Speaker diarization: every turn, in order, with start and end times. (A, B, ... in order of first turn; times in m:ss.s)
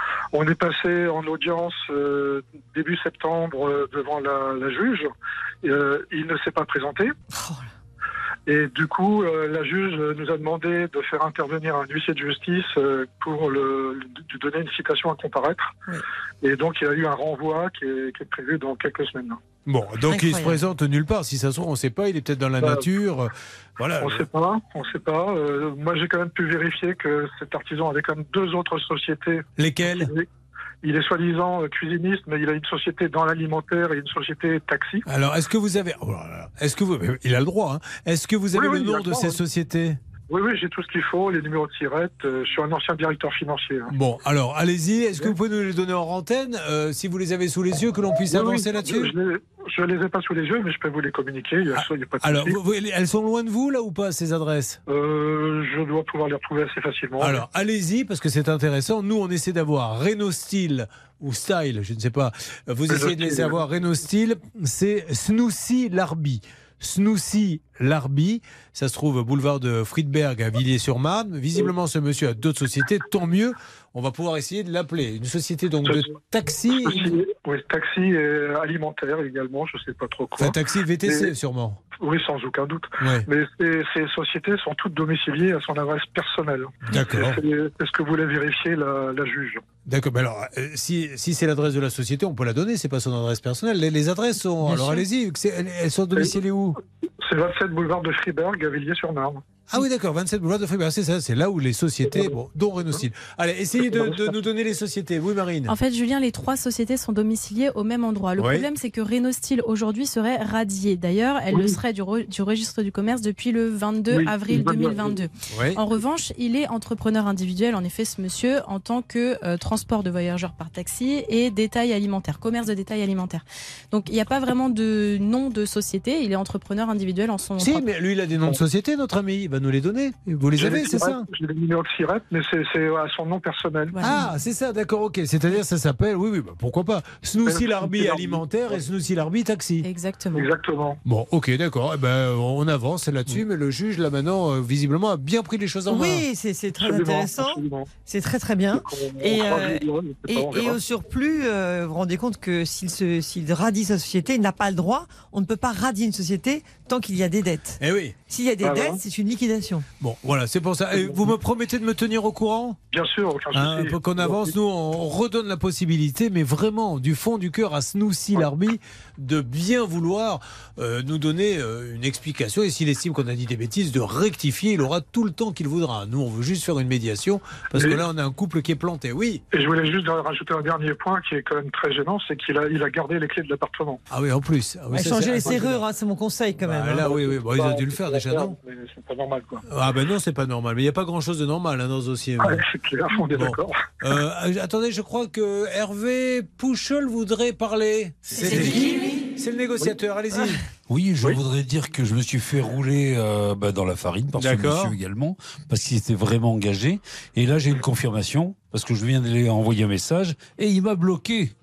0:00.3-0:05.1 A
0:05.6-0:07.1 A
0:07.3-0:07.7 B
0:08.5-0:15.7 A
0:16.4-0:19.4 A
0:19.7-0:24.2 C
0:20.1-0:20.6 B
0:22.6-0:22.9 A
0:24.0-0:30.3 A
0:29.6-0:30.1 C
0:30.8-0:35.0 A
0:35.1-0:40.0 C
0:38.5-0:39.4 A
0:40.3-0:43.9 A
0:43.9-0:49.1 C
0:48.3-0:52.6 A
0:52.2-0:54.8 C
0:54.9-0:57.4 A
0:57.2-1:17.2 C
1:02.9-1:03.6 A
1:15.8-1:16.1 A
1:16.7-1:21.3 A
1:20.4-1:21.8 C
1:22.0-1:29.6 A
1:23.0-1:23.3 C
1:26.9-1:27.4 C
1:29.9-1:36.8 C
1:34.7-1:35.0 B
1:37.2-1:39.4 A
1:39.7-1:45.7 C
1:42.1-1:42.4 A
1:43.8-1:44.3 A
1:45.7-2:07.8 D
1:48.4-1:48.7 C
1:51.5-1:51.8 A
1:54.1-1:55.2 A
1:55.5-1:55.8 C
2:07.6-2:11.2 C
2:10.6-2:14.0 A
2:13.9-2:14.3 D
2:14.0-2:19.9 C
2:17.4-2:18.8 A
2:19.8-2:20.5 D
2:20.4-2:21.0 A
2:21.0-2:26.2 C
2:25.9-2:39.9 B
2:26.8-2:27.9 A
2:28.7-2:30.8 A
2:37.8-2:38.2 C
2:38.6-2:39.0 A
2:40.0-2:42.8 C
2:40.9-2:41.3 A
2:42.9-2:44.5 A
2:43.5-2:59.4 C
2:57.7-2:58.0 A
2:59.5-3:04.0 A
3:04.1-3:05.8 C
3:04.9-3:07.1 B
3:05.4-3:05.8 A
3:06.6-3:08.6 C
3:07.0-3:09.6 A
3:09.7-3:12.6 C
3:12.4-3:13.8 A
3:13.3-3:20.6 C
3:18.5-3:18.8 A
3:18.5-3:19.1 D
3:20.9-3:31.6 E
3:24.4-3:25.0 C